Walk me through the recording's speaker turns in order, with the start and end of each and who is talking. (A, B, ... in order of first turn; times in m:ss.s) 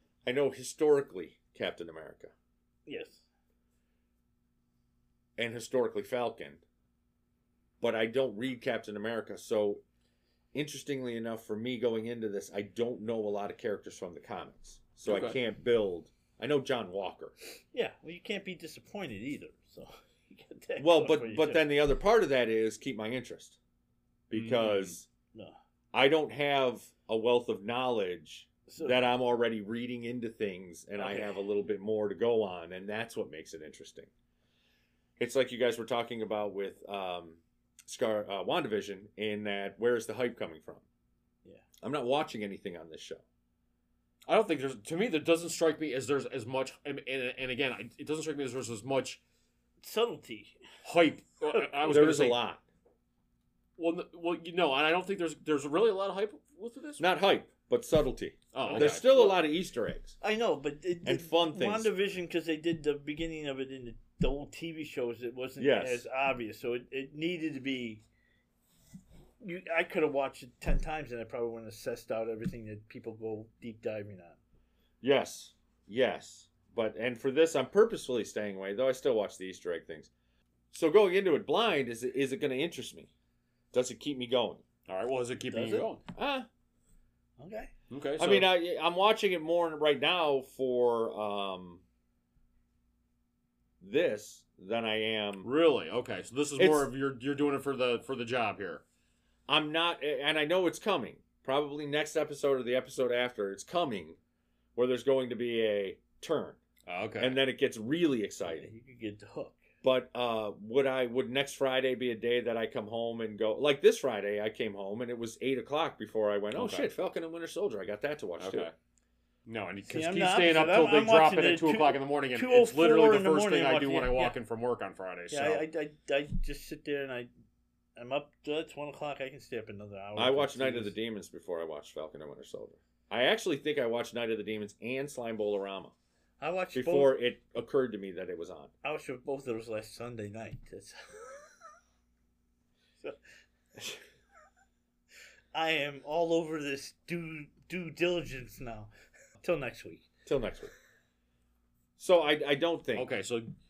0:00.2-0:02.3 A
0:02.9-0:03.2 B
0:05.4-0:06.6 A
0:07.8-0:09.8 A
0:10.5-0:17.3 A
0:15.1-0:15.4 C
0:17.7-0:21.6 B
0:20.8-0:23.6 A
0:24.3-0:25.1 A
0:24.3-0:25.0 C
0:25.9-0:34.1 A
0:28.7-0:29.0 B
0:31.0-0:31.4 B
0:35.2-0:40.8 A
0:41.8-0:43.2 A
0:44.3-0:49.2 C
0:49.8-0:50.6 B
0:50.8-0:52.4 C
0:51.8-0:52.6 A
0:53.8-0:57.1 C
0:57.0-1:00.2 A
0:58.5-0:59.1 C
0:58.6-0:59.4 B
1:00.2-1:08.0 B
1:01.0-1:01.9 A
1:05.6-1:06.0 A
1:09.4-1:14.4 B
1:15.0-1:20.1 A
1:20.7-1:23.1 A
1:23.7-1:24.6 A
1:24.9-1:26.0 C
1:25.5-1:25.9 B
1:26.1-1:26.5 A
1:27.4-1:27.7 B
1:27.9-1:28.5 C
1:28.2-1:31.8 A
1:33.8-1:35.5 A
1:35.4-1:38.8 C
1:36.6-1:36.9 A
1:39.5-1:44.2 A
1:44.8-1:46.6 A
1:46.9-1:47.4 C
1:47.2-1:48.7 A
1:48.5-1:49.6 B
1:49.8-1:58.7 A
1:56.5-1:56.9 C
1:58.4-1:58.7 C
1:59.5-2:05.6 C
1:59.9-2:04.4 B
2:05.3-2:07.3 B
2:08.0-2:10.9 B
2:10.2-2:15.9 A
2:16.4-2:17.2 B
2:16.7-2:18.7 A
2:18.8-2:21.4 B
2:25.5-2:28.9 B
2:29.4-2:30.1 B
2:30.3-2:30.7 A
2:32.0-2:33.1 A
2:33.0-2:33.5 C